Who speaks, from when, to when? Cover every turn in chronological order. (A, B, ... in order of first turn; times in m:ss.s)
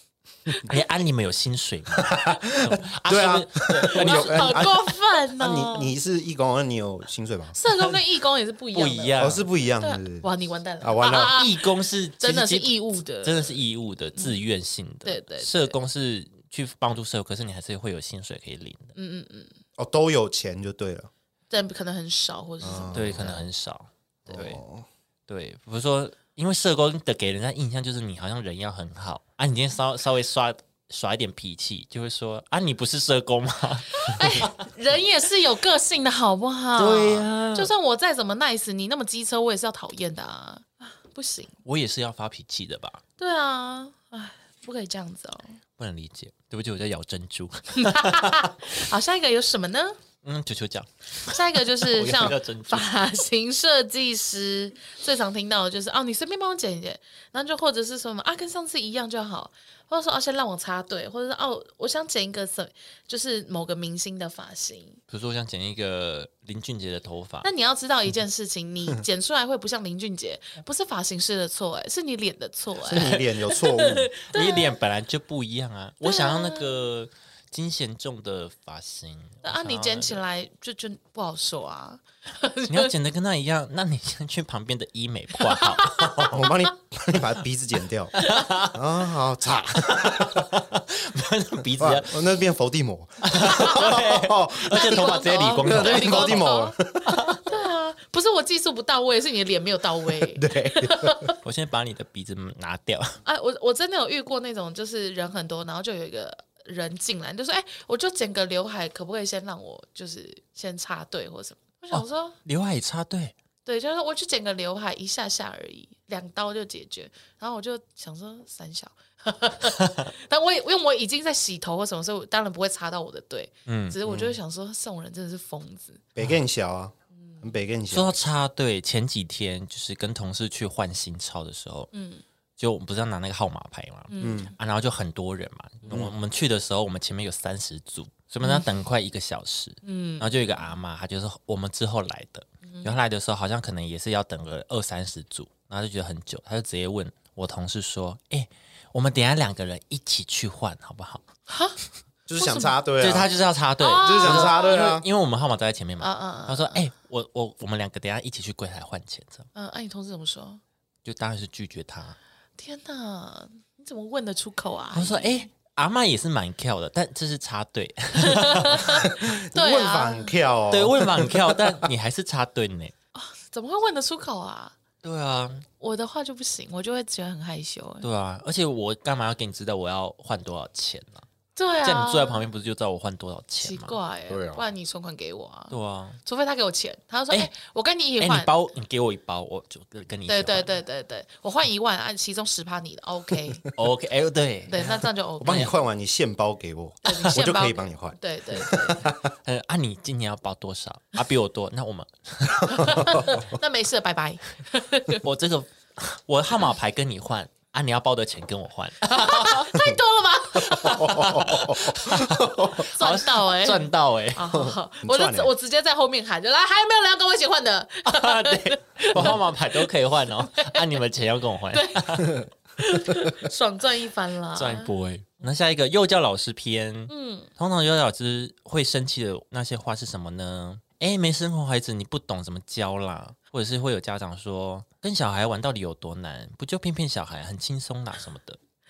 0:00.6-0:04.6 A
0:01.9-0:07.5 B
0:03.9-0:05.9 C
0:07.5-0:09.2 C
0:07.7-0:08.0 A
0:08.7-0:09.5 A
0:09.2-0:10.3 B
0:09.8-0:11.7 C
0:10.8-0:11.4 B
0:11.2-0:18.9 A
0:12.2-0:13.5 C
0:15.0-0:15.8 C
0:18.9-0:19.5 C
0:19.8-0:21.1 B
0:21.5-0:23.2 C
0:22.6-0:23.4 B
0:22.9-0:24.6 A
0:24.3-0:24.9 B
0:25.3-0:34.5 A
0:33.9-0:41.5 C
0:36.8-0:37.7 A
0:41.6-0:43.0 A
0:43.2-0:45.6 C
0:45.8-0:48.5 A
0:47.8-0:50.0 C
0:50.2-0:52.9 A
0:51.3-1:05.0 C
1:05.1-1:07.5 A
1:07.4-1:14.8 C
1:12.8-1:14.1 B
1:14.3-1:20.2 A
1:16.0-1:16.8 C
1:19.4-1:22.9 C
1:22.7-1:26.4 A
1:25.4-1:26.6 C
1:26.2-1:30.5 B
1:28.2-1:28.5 C
1:28.2-1:28.8 A
1:29.8-1:32.2 A
1:31.6-1:37.4 B
1:33.2-1:36.4 A
1:33.4-1:33.9 C
1:34.7-1:36.8 C
1:37.1-1:37.5 A
1:37.4-1:41.3 C
1:40.2-1:41.3 B
1:41.4-1:43.2 A
1:43.2-1:52.4 C
1:51.9-1:53.3 A
1:53.6-2:06.0 C
2:03.6-2:04.0 A
2:04.0-2:04.4 B
2:06.2-2:08.2 B
2:07.9-2:11.9 A
2:11.9-2:12.2 C
2:12.6-2:31.2 A
2:14.1-2:14.5 C
2:14.2-2:14.5 B
2:19.8-2:20.6 C
2:31.5-2:31.8 C
2:32.3-2:33.3 B
2:32.4-2:32.8 C
2:33.0-2:39.5 A
2:33.8-2:34.8 C
2:34.0-2:35.1 B
2:36.0-2:36.8 C
2:39.5-2:40.6 C
2:41.0-2:42.2 A
2:42.6-2:45.4 C
2:44.9-2:49.0 A
2:48.2-2:50.3 C
2:48.8-2:51.9 B
2:50.7-2:52.9 A
2:53.1-2:54.8 C
2:55.0-2:55.6 A
2:55.8-2:58.1 C
2:58.0-3:01.2 A
3:01.5-3:02.4 C
3:01.8-3:03.9 A
3:03.6-3:08.5 C
3:04.3-3:04.6 B
3:05.7-3:06.2 A
3:08.2-3:10.7 A
3:10.3-3:13.6 C
3:13.8-3:15.7 A
3:14.7-3:15.7 C
3:15.4-3:19.3 B
3:17.0-3:19.1 C
3:19.4-3:23.4 A
3:22.7-3:25.2 C
3:22.9-3:23.3 B
3:25.2-3:29.7 A
3:29.0-3:31.4 C
3:30.7-3:32.8 B
3:30.9-3:34.5 A
3:32.7-3:39.9 C
3:34.5-3:35.5 B
3:38.1-3:42.4 A
3:40.5-3:40.8 C
3:41.7-3:44.9 C
3:44.6-3:58.6 A
3:47.1-3:47.5 C